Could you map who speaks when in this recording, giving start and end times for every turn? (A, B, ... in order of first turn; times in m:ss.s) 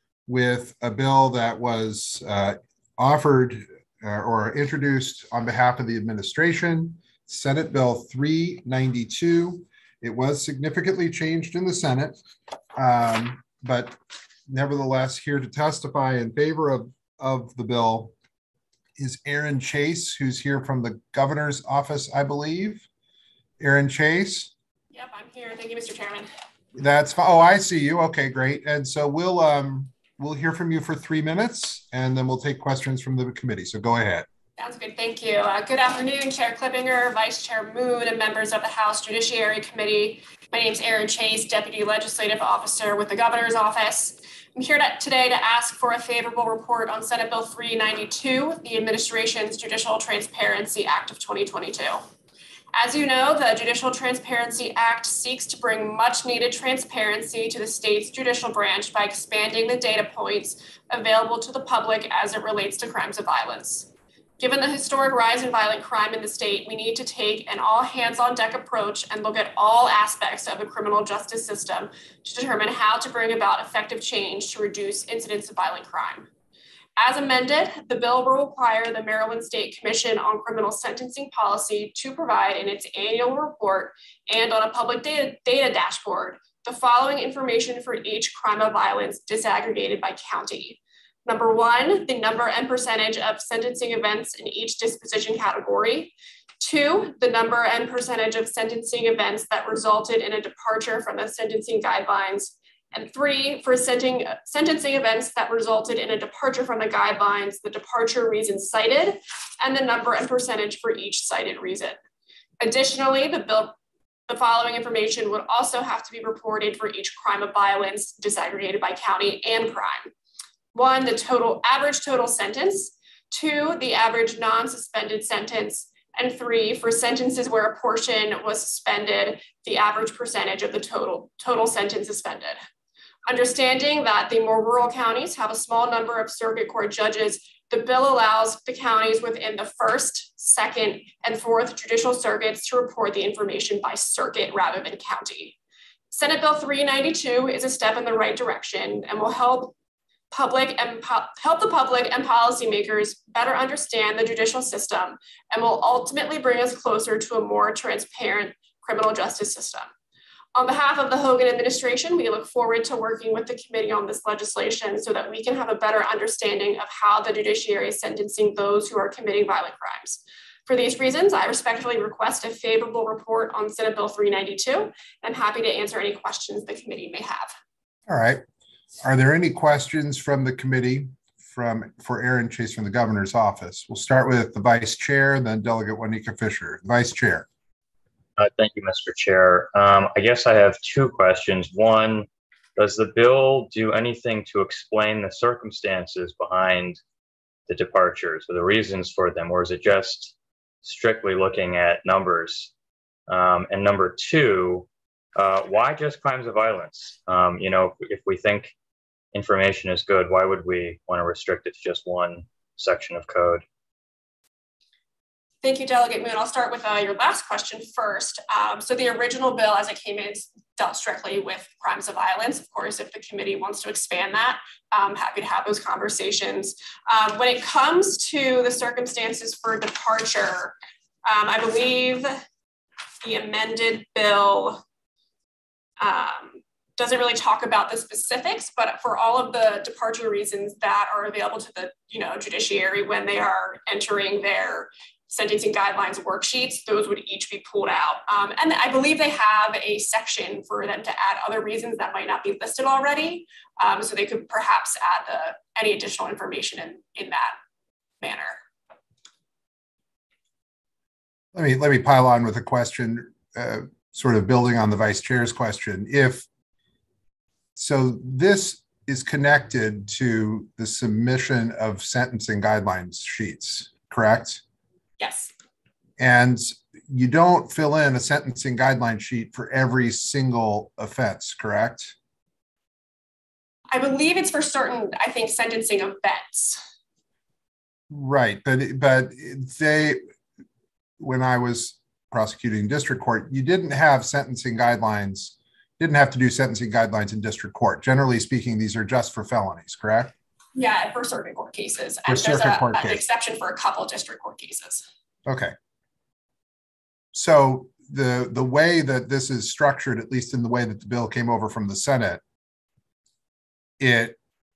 0:00.3-0:12.2 A
0:12.7-0:14.0 A
0:14.5-0:18.1 A
0:19.0-0:22.8 A
0:23.6-0:24.5 A
0:24.9-0:26.3 B
0:26.7-0:34.3 A
0:34.6-0:52.0 B
0:52.7-1:16.3 B
1:17.0-1:52.0 B
1:52.6-1:53.7 B
1:54.3-2:00.1 B
2:00.7-2:12.6 B
2:13.3-2:25.6 B
2:26.1-2:29.7 B
2:30.3-2:39.9 B
2:40.5-2:57.5 B
2:58.1-2:58.4 A
2:59.0-3:07.5 A
3:08.4-3:17.0 C
3:17.7-3:22.7 C
3:23.3-3:28.7 C
3:29.3-3:33.6 C
3:35.6-3:52.3 B
3:53.2-3:54.8 B
3:56.0-4:17.5 B
4:18.2-4:18.6 B
4:21.5-4:26.4 A
4:27.8-4:34.6 A
4:35.2-4:35.5 B
4:36.2-4:42.1 A
4:43.9-4:46.8 B
4:48.1-4:50.2 A
4:51.2-5:00.3 A
5:00.8-5:05.0 B
5:02.3-5:03.2 A
5:05.4-5:05.7 A
5:07.3-5:12.4 A
5:14.0-5:14.4 A